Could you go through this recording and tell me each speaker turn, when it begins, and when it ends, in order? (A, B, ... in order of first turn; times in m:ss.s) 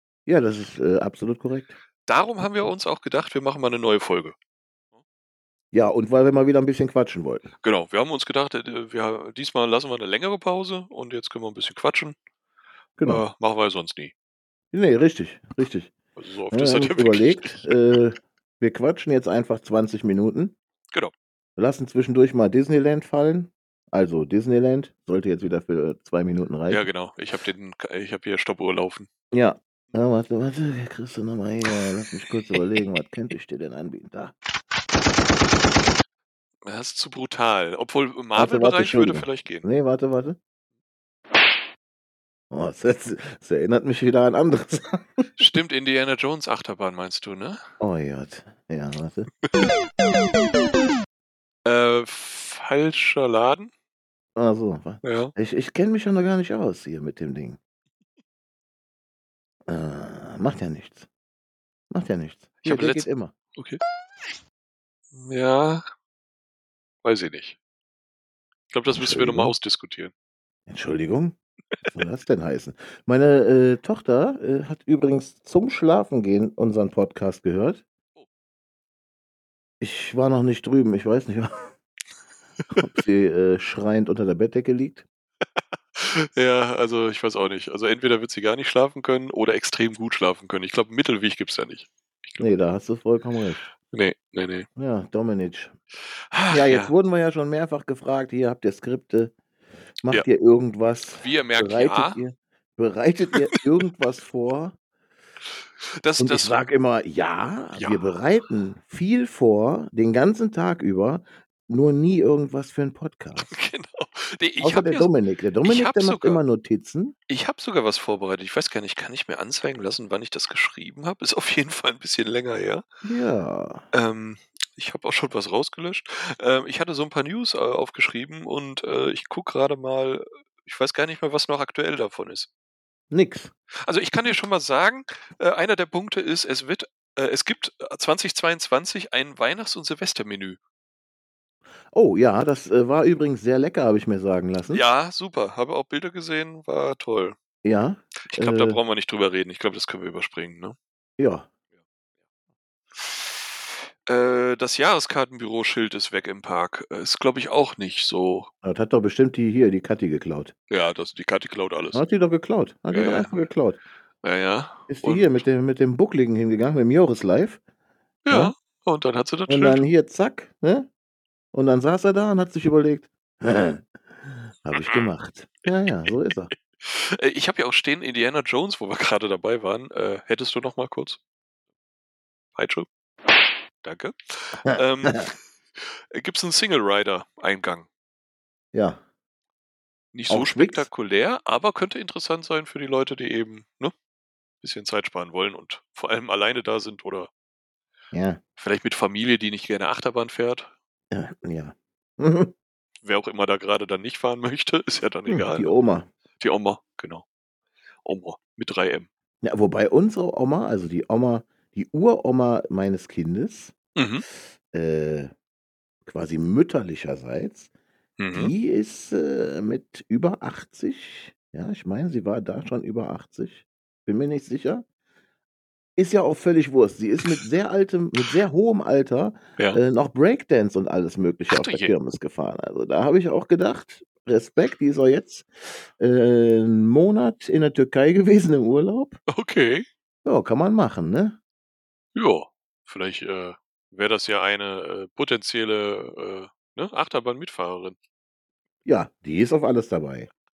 0:00.2-0:01.8 A
0:02.1-0:04.4 B
0:05.7-0:07.5 A
0:07.6-0:12.2 B
0:13.0-0:13.2 A
0:13.0-0:14.1 B
0:14.7-0:15.9 A
0:16.2-0:17.8 B
0:16.5-0:20.6 A
0:21.6-0:26.9 A
0:26.7-0:29.1 B
0:29.3-0:34.3 A
0:36.6-0:39.6 B
0:38.3-0:40.4 A
0:42.5-0:45.3 A
0:45.4-0:47.6 B
0:47.8-0:49.3 A
0:51.6-0:53.7 B
0:54.4-0:57.6 A
0:55.0-0:55.3 B
0:59.7-1:01.1 A
1:01.9-1:03.3 A
1:02.6-1:03.8 B
1:05.1-1:05.8 B
1:07.0-1:07.6 B
1:08.7-1:10.1 B
1:08.9-1:09.5 A
1:10.7-1:11.4 A
1:11.9-1:17.8 A
1:19.8-1:21.7 A
1:22.7-1:25.0 A
1:25.9-1:32.4 B
1:32.4-1:33.6 A
1:33.8-1:34.7 B
1:34.8-1:35.7 A
1:36.1-1:36.9 B
1:36.5-1:39.3 A
1:40.0-1:44.8 A
1:41.1-1:42.2 B
1:45.5-1:46.6 B
1:46.2-1:53.5 A
1:47.7-1:48.1 B
1:53.4-1:55.1 B
1:54.6-1:57.1 A
1:55.6-1:56.4 B
1:57.3-2:02.8 B
2:03.0-2:03.8 A
2:03.9-2:12.5 B
2:13.1-2:13.5 A
2:13.8-2:20.6 B
2:21.9-2:24.8 A
2:24.7-2:27.4 B
2:27.6-2:28.8 A
2:28.2-2:30.8 B
2:31.2-2:31.5 A
2:33.0-2:38.5 B
2:38.6-2:40.5 A
2:40.7-2:42.0 B
2:41.9-2:43.8 A
2:42.9-2:43.4 B
2:44.2-2:45.4 B
2:44.9-2:47.6 A
2:48.2-2:49.8 B
2:49.5-2:50.9 A
2:51.5-2:56.5 A
2:54.8-2:55.1 B
2:56.8-3:01.2 B
3:02.5-3:02.9 B
3:03.8-3:07.9 B
3:04.7-3:05.3 A
3:08.7-3:09.0 A
3:10.1-3:13.9 B
3:10.3-3:10.9 A
3:14.6-3:17.3 B
3:18.1-3:18.4 A
3:18.6-3:20.7 B
3:21.1-3:22.5 A
3:23.0-3:25.7 B
3:25.3-3:26.1 A
3:26.4-3:27.2 B
3:28.0-3:29.1 B
3:29.4-3:33.7 A
3:34.0-3:34.2 B
3:34.7-3:35.3 A
3:36.0-3:37.7 A
3:38.2-3:38.5 B
3:38.3-3:44.8 A
3:46.0-3:59.2 A
3:51.5-3:51.9 B
3:59.3-3:59.9 B
4:00.2-4:01.4 A
4:02.1-4:08.0 B
4:08.8-4:10.3 A